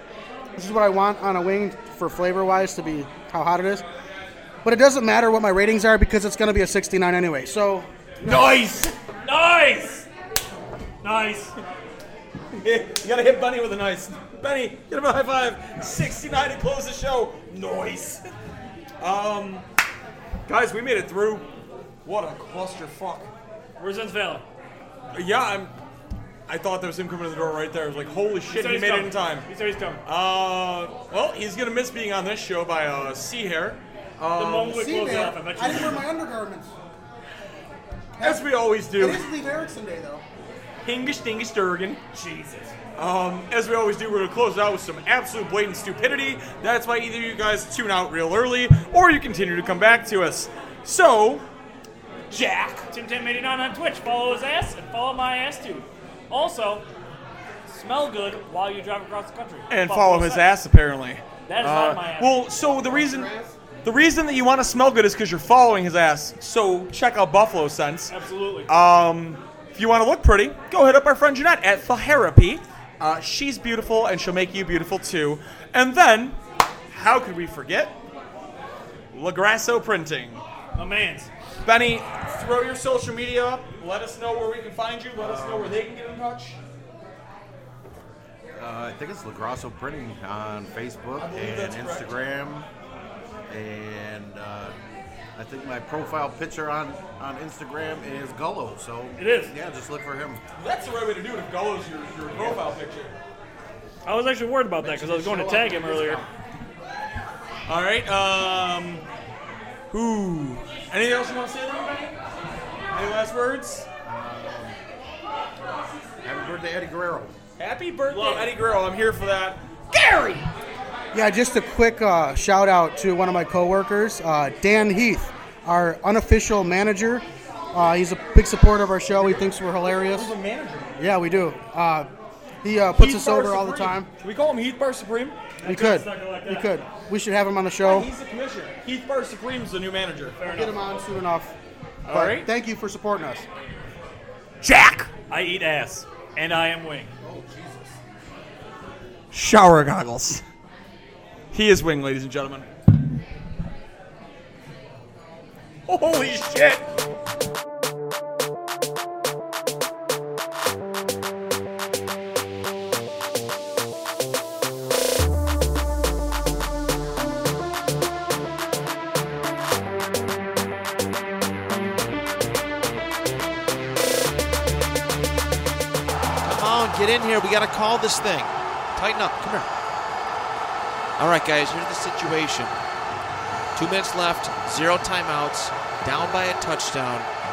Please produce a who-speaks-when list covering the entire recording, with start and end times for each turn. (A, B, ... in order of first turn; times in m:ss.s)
0:00.6-0:03.9 A
0:04.6-0:08.4 A
0:08.2-0:09.0 B
0:09.2-0:10.1 C
0:11.0-0:11.6 C
0:12.5-0:18.3 B
0:19.0-0:19.6 B
0:20.5-0:21.4 B
0:22.0-0:23.3 B
0:23.8-0:24.4 C
0:25.1-0:25.7 B
0:26.5-0:29.5 B
0:28.5-0:30.0 C
0:30.0-0:35.2 B
0:34.4-0:36.0 C
0:34.7-0:36.7 A
0:38.2-0:40.2 A
0:38.2-0:39.3 B
0:40.8-0:42.3 B
0:43.0-0:51.4 B
0:52.3-0:52.9 B
0:52.9-0:56.9 C
0:57.7-1:00.6 C
0:59.7-1:03.3 B
1:01.5-1:02.5 C
1:02.7-1:03.5 D
1:03.8-1:08.1 B
1:08.1-1:08.7 C
1:08.7-1:16.4 B
1:16.9-1:17.9 B
1:19.1-1:20.4 B
1:20.8-1:21.3 C
1:21.6-1:26.6 B
1:25.2-1:25.8 D
1:28.5-1:32.7 D
1:31.2-1:32.3 B
1:33.5-1:34.8 D
1:35.4-1:40.4 D
1:39.2-1:39.5 C
1:40.6-1:43.2 B
1:42.3-1:42.6 D
1:44.1-1:46.2 C
1:44.8-1:46.3 D
1:47.7-1:49.0 B
1:49.9-1:52.2 B
1:52.9-1:53.9 B
1:54.0-1:54.8 D
1:56.2-1:57.4 D
1:57.6-2:00.5 B
1:58.1-1:58.5 C
2:01.1-2:10.3 A
2:09.2-2:11.0 B
2:11.0-2:12.1 A
2:12.6-2:14.1 A
2:12.9-2:15.4 B
2:15.6-2:16.7 C
2:15.6-2:18.1 A
2:17.8-2:20.4 B
2:20.4-2:20.8 C
2:20.4-2:21.6 A
2:22.0-2:22.5 B
2:22.1-2:23.5 A
2:24.6-2:25.1 B
2:25.3-2:27.1 C
2:27.2-2:28.0 D
2:29.3-2:30.4 B
2:31.5-2:32.7 B
2:35.9-2:36.9 B
2:56.4-2:59.7 E
3:01.2-3:02.7 E
3:03.8-3:07.3 E